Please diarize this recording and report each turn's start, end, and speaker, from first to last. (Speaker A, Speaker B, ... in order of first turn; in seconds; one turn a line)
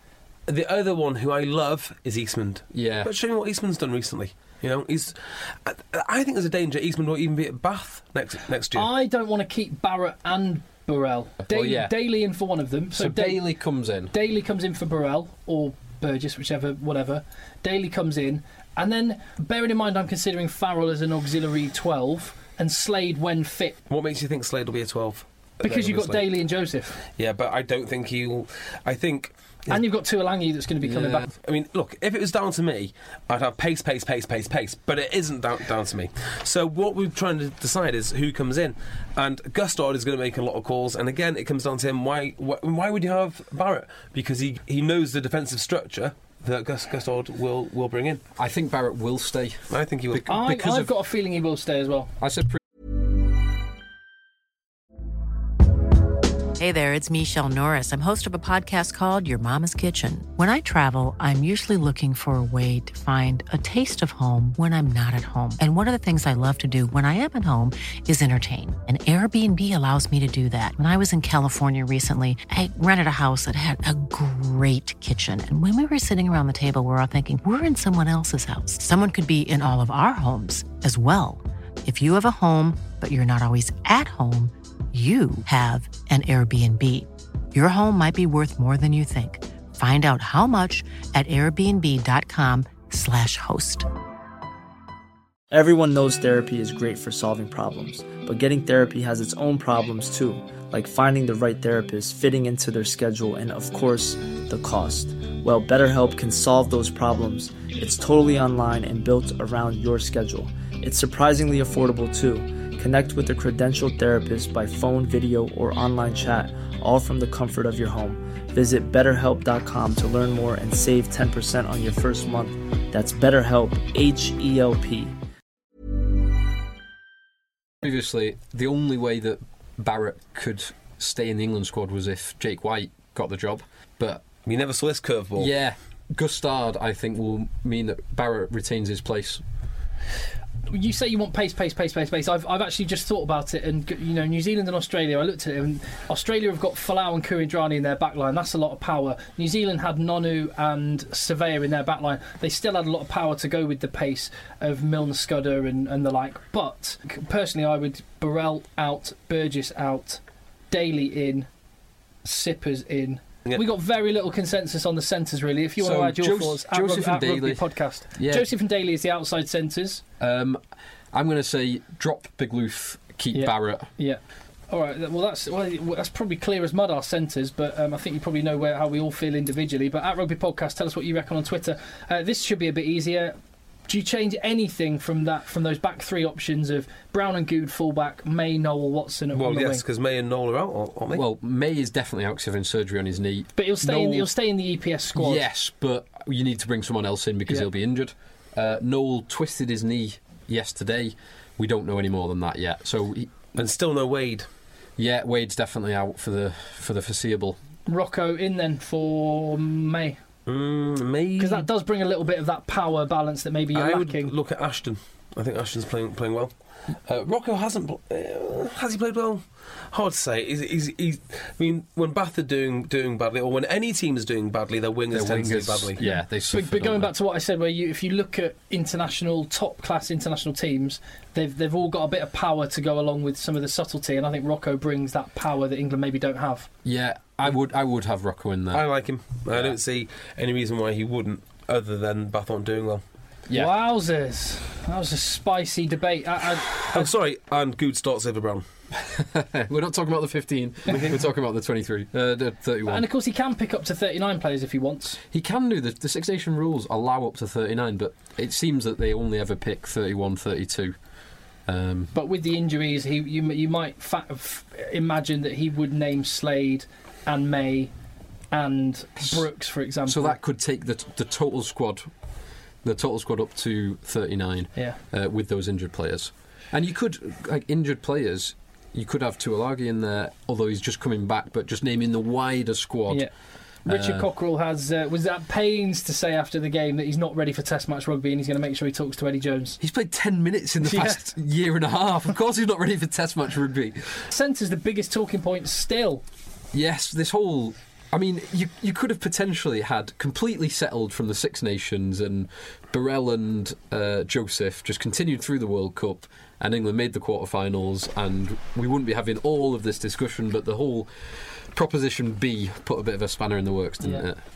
Speaker A: 0.5-8.9
Speaker B: 2.7-3.1
Speaker C: 8.7-13.4
Speaker B: 11.4-11.9
Speaker B: 12.9-14.1
Speaker C: 14.1-23.8
Speaker A: 23.9-26.3
Speaker C: 25.6-27.0
Speaker A: 27.2-29.8
Speaker C: 29.7-31.3
Speaker A: 31.2-48.2
Speaker B: 48.4-50.9
Speaker A: 49.7-50.3
Speaker C: 50.3-52.1
Speaker B: 52.2-52.6
Speaker D: 56.6-93.9
Speaker E: 95.5-125.2
Speaker B: 127.8-134.3
Speaker A: 134.5-135.5
Speaker B: 135.4-139.4
Speaker C: 140.7-161.5
Speaker C: 162.2-170.0
Speaker B: 165.8-168.5
Speaker B: 170.2-170.6
Speaker B: 171.1-173.9
Speaker C: 173.3-183.3
Speaker C: 183.9-189.8
Speaker A: 189.3-191.2
Speaker B: 191.1-194.3
Speaker C: 193.6-195.4
Speaker B: 195.2-203.4
Speaker A: 203.6-204.5
Speaker B: 205.0-207.6
Speaker C: 207.9-210.2
Speaker A: 210.5-211.7
Speaker C: 211.4-214.3
Speaker A: 213.7-216.5
Speaker A: 217.1-226.0
Speaker B: 225.1-227.1
Speaker C: 226.0-236.7
Speaker B: 236.8-238.8
Speaker A: 238.7-243.0
Speaker B: 239.5-239.8
Speaker B: 243.5-243.7
Speaker C: 243.5-247.1
Speaker A: 246.8-248.7
Speaker B: 249.0-253.1
Speaker A: 250.9-251.2
Speaker C: 252.9-255.2
Speaker B: 255.3-261.0
Speaker B: 261.7-262.1
Speaker C: 262.1-267.9
Speaker C: 268.5-270.4
Speaker B: 270.1-272.1
Speaker B: 272.8-283.3
Speaker B: 283.9-284.3
Speaker C: 283.9-289.8
Speaker B: 289.8-294.2
Speaker C: 290.8-291.2
Speaker C: 294.3-296.2
Speaker B: 296.7-311.1
Speaker B: 311.7-314.4